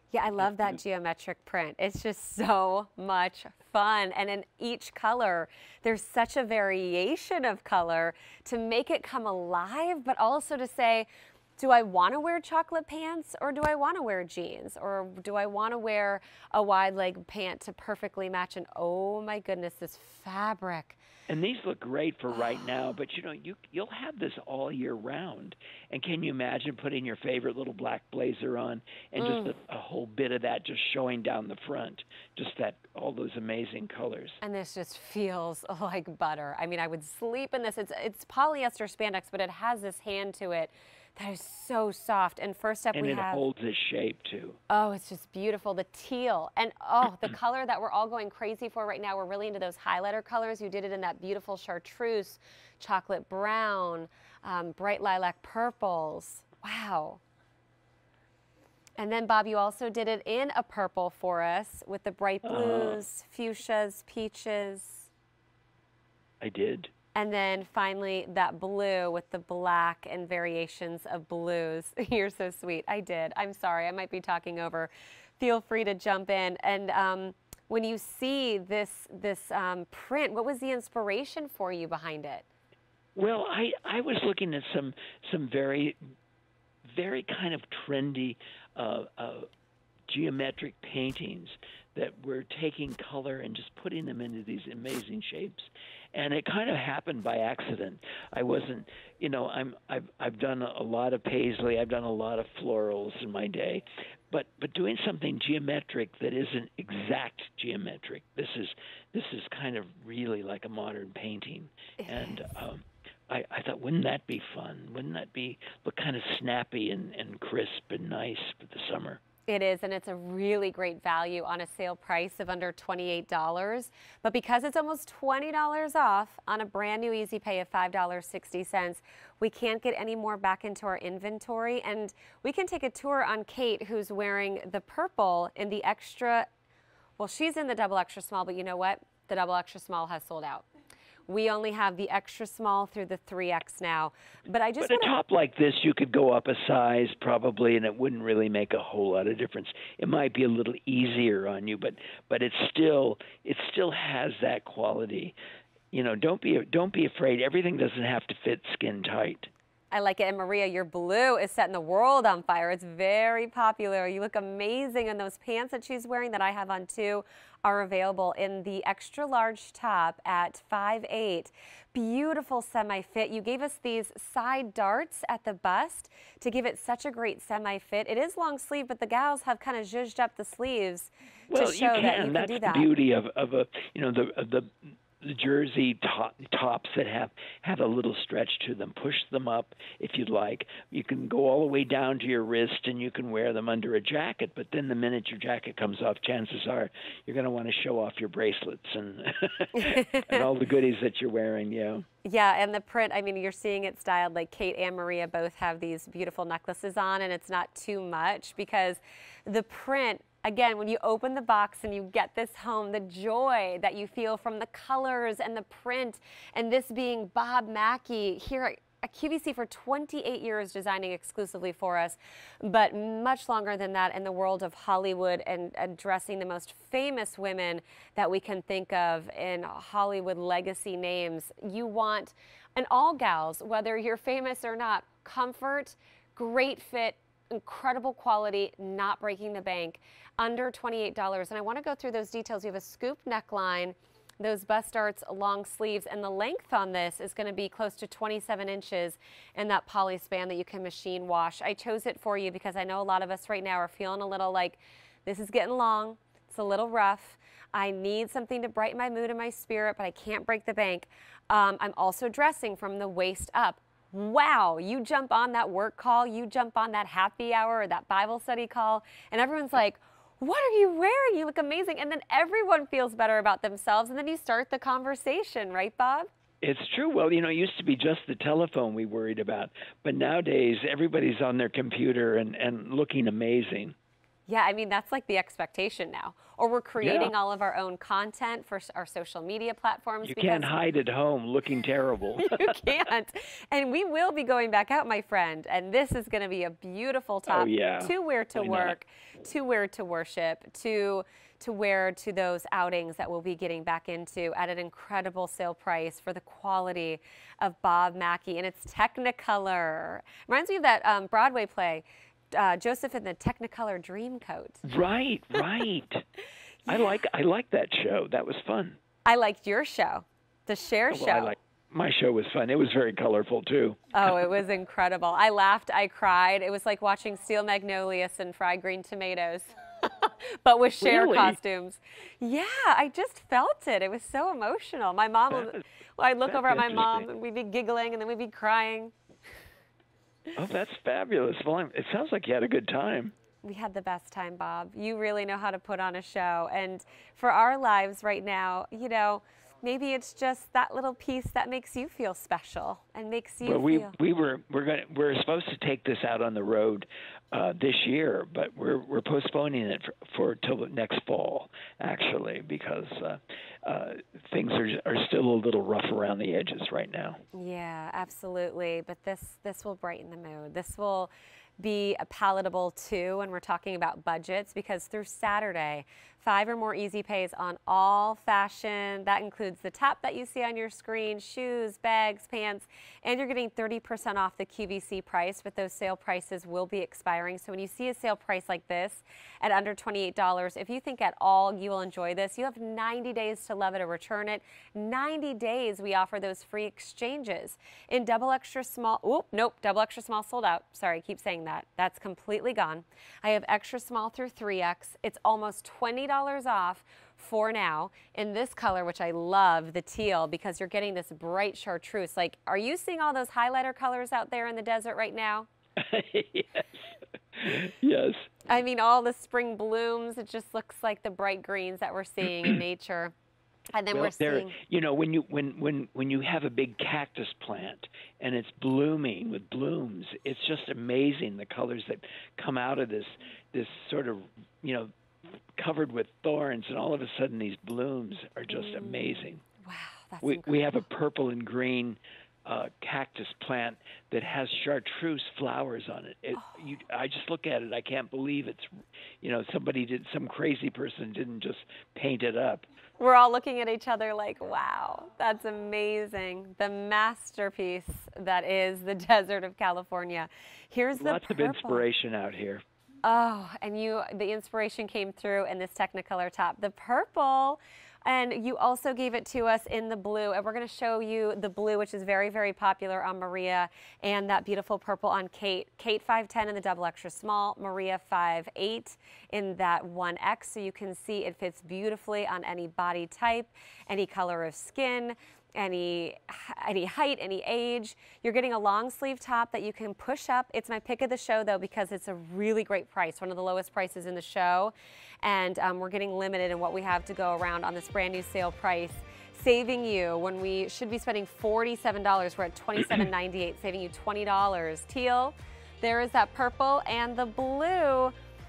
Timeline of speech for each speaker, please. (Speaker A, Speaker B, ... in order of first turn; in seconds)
Speaker A: 0.1-21.0, 22.3-22.6, 29.2-29.6, 34.4-43.5, 44.7-57.2, 59.0-65.1, 67.2-82.5, 112.0-112.7, 119.5-136.5, 137.2-140.7, 141.3-145.1, 159.9-182.9, 199.8-200.4, 202.2-276.3, 284.5-290.7, 292.4-314.9, 319.3-321.6, 324.1-339.1, 343.6-354.1, 367.5-415.7, 418.7-423.3, 423.9-424.8, 438.7-441.0, 453.2-462.0, 463.2-508.4
Speaker B: 0.4-0.8, 21.3-34.4, 42.9-44.6, 62.4-63.0, 66.4-66.9, 83.2-86.0, 87.0-89.5, 90.1-119.2, 144.8-155.4, 155.9-159.5, 181.5-202.1, 276.6-283.9, 287.0-287.3, 290.2-292.8, 297.5-298.9, 314.9-316.2, 316.9-319.0, 321.1-324.5, 331.0-331.6, 335.5-335.8, 336.5-337.3, 340.6-343.3, 353.6-367.4, 416.0-418.5, 422.4-422.8, 424.1-435.1, 435.8-439.6, 440.4-448.9, 449.4-452.9, 461.1-462.8